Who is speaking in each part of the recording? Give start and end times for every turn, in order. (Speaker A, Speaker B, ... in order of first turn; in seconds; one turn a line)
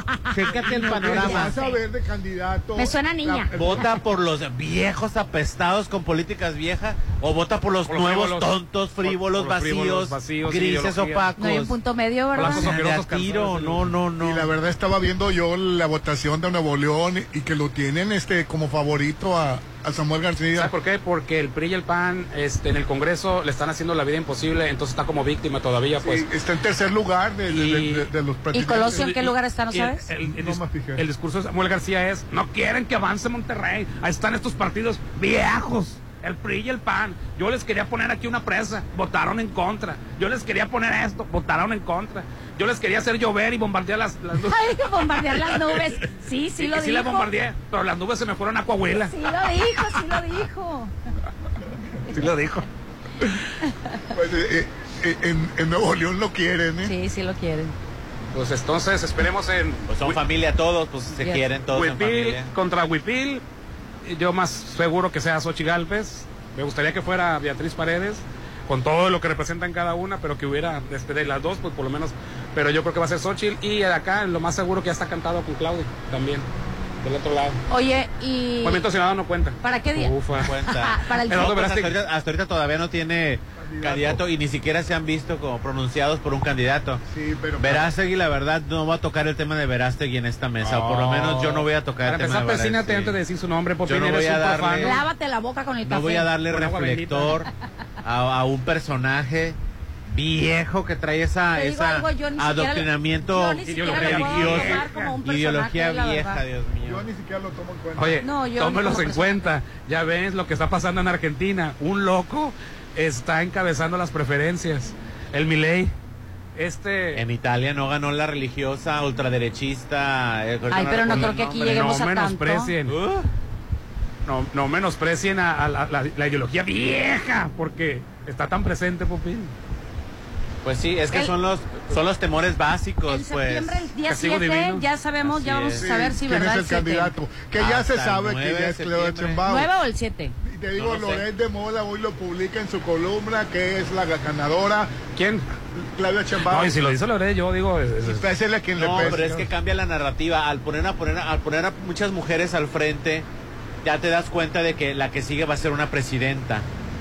Speaker A: 0.3-1.6
Speaker B: 0.5-1.5
Speaker C: 0.8-3.9
Speaker D: 1.0-1.8
Speaker D: 2.8-3.9
Speaker A: 3.5-11.8
Speaker B: 7.9-11.3
Speaker D: 11.4-12.7
Speaker B: 12.3-14.0
Speaker A: 12.4-14.5
Speaker C: 14.2-20.7
Speaker B: 20.6-26.2
Speaker C: 26.0-29.3
Speaker B: 27.5-28.1
Speaker D: 28.5-30.1
Speaker B: 28.9-45.8
Speaker C: 30.2-31.0
Speaker D: 44.5-47.3
Speaker B: 46.6-49.1
Speaker D: 49.1-50.9
Speaker B: 52.1-52.6
Speaker C: 54.1-56.9
Speaker D: 56.8-57.7
Speaker B: 58.3-60.2
Speaker A: 59.9-62.5
Speaker B: 61.7-63.4
Speaker B: 64.0-76.5
Speaker B: 77.0-77.6
Speaker D: 77.7-78.8
Speaker B: 78.6-80.5
Speaker D: 79.6-80.1
Speaker A: 80.4-87.0
Speaker D: 80.7-81.6
Speaker B: 81.3-82.0
Speaker C: 83.6-84.2
Speaker C: 87.1-87.9
Speaker A: 87.6-93.2
Speaker B: 90.6-95.0
Speaker A: 93.9-95.0
Speaker D: 94.8-96.3
Speaker A: 95.8-97.5
Speaker B: 96.5-97.4
Speaker A: 98.0-99.6
Speaker A: 100.1-107.1
Speaker D: 101.5-106.4
Speaker B: 103.7-105.1
Speaker C: 106.8-108.2
Speaker B: 108.0-115.9
Speaker D: 108.2-109.5
Speaker B: 116.6-117.2
Speaker A: 117.2-121.8
Speaker D: 120.7-122.7
Speaker B: 121.2-123.0
Speaker A: 122.9-123.2
Speaker B: 124.3-129.5
Speaker A: 130.6-133.9
Speaker D: 133.1-137.1
Speaker B: 134.1-134.8
Speaker A: 135.2-135.9
Speaker C: 135.8-139.7
Speaker A: 137.6-139.4
Speaker D: 139.4-140.3
Speaker C: 140.4-144.9
Speaker A: 140.8-141.2
Speaker B: 145.2-145.4
Speaker C: 145.8-146.8
Speaker B: 146.5-148.3
Speaker C: 148.0-149.5
Speaker A: 148.8-153.3
Speaker A: 153.8-156.7